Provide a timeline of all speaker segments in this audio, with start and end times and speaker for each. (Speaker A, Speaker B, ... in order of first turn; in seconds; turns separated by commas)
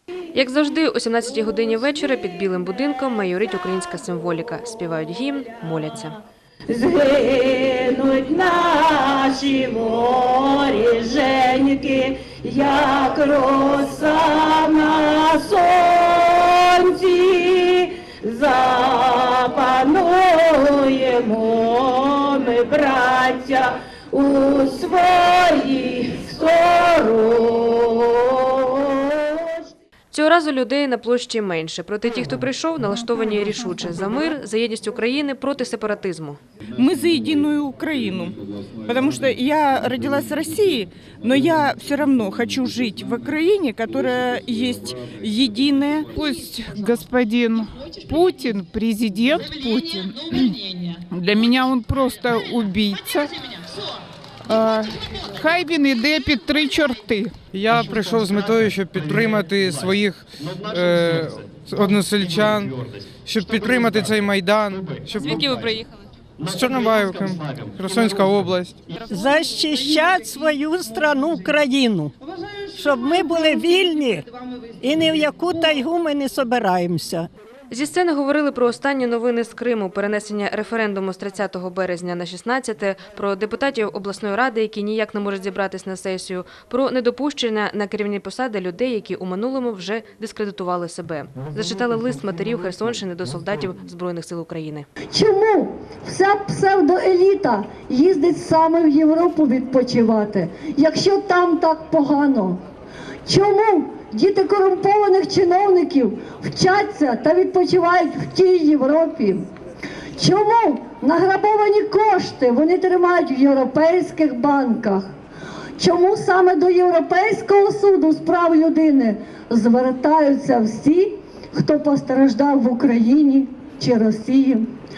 Speaker A: 0.3-6.2, Speaker B: 6.7-29.7, Speaker A: 30.1-36.4, Speaker C: 36.8-38.3, Speaker C: 38.9-46.0, Speaker D: 46.1-50.6, Speaker D: 51.1-53.3, Speaker D: 54.5-57.4, Speaker E: 57.5-65.7, Speaker E: 66.4-68.8, Speaker F: 69.0-72.1, Speaker F: 72.7-74.2, Speaker F: 74.8-77.3, Speaker A: 77.7-94.9, Speaker G: 95.1-102.6, Speaker G: 103.3-109.5, Speaker G: 110.2-115.1, Speaker G: 115.8-124.7